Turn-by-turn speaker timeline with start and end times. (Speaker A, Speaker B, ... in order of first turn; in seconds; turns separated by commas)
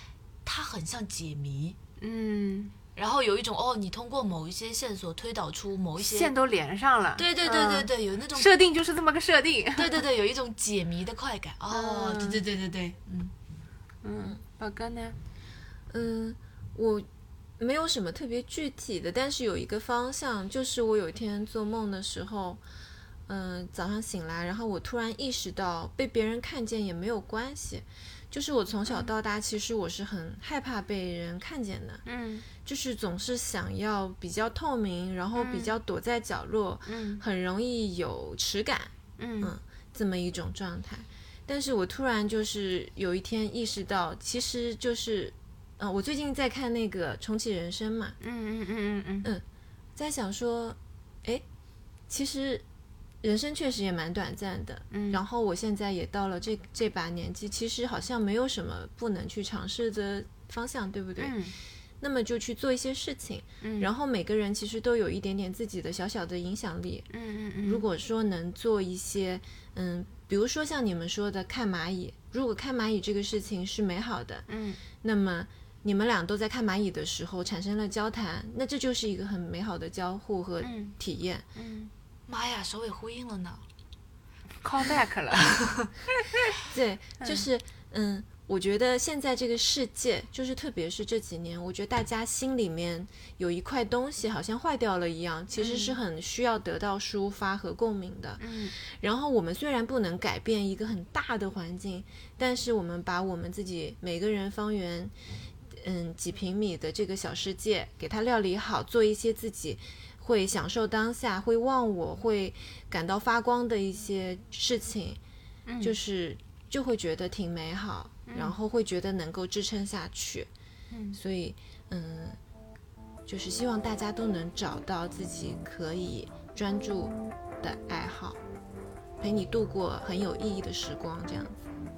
Speaker A: 0.4-1.8, Speaker B: 2.0-2.7, Speaker A: 3.0-6.3, Speaker B: 6.0-10.0, Speaker A: 7.2-8.5, Speaker A: 9.7-13.3, Speaker B: 11.7-12.4, Speaker B: 14.0-15.2, Speaker C: 15.9-17.1, Speaker C: 17.6-22.6, Speaker C: 23.3-32.0, Speaker B: 32.0-32.5, Speaker C: 32.6-48.1, Speaker B: 35.3-35.8, Speaker B: 36.9-37.2, Speaker B: 39.2-39.5, Speaker B: 48.2-49.3, Speaker C: 50.0-51.4, Speaker C: 52.1-52.6, Speaker C: 53.2-61.4, Speaker B: 54.9-55.2, Speaker B: 61.2-61.5, Speaker C: 62.0-67.0, Speaker B: 63.6-63.9, Speaker B: 67.1-67.8, Speaker C: 67.6-74.5, Speaker B: 74.5-74.8, Speaker C: 75.0-81.4, Speaker B: 80.6-80.9, Speaker B: 81.5-81.9, Speaker A: 82.3-83.6, Speaker B: 84.6-85.6, Speaker C: 86.7-105.1, Speaker B: 95.6-96.0, Speaker B: 98.4-98.7, Speaker C: 105.7-115.2, Speaker B: 115.7-115.9, Speaker C: 115.8-120.5, Speaker B: 118.3-118.5, Speaker B: 120.9-121.2, Speaker C: 121.1-122.4, Speaker C: 123.3-128.4, Speaker C: 129.2-131.6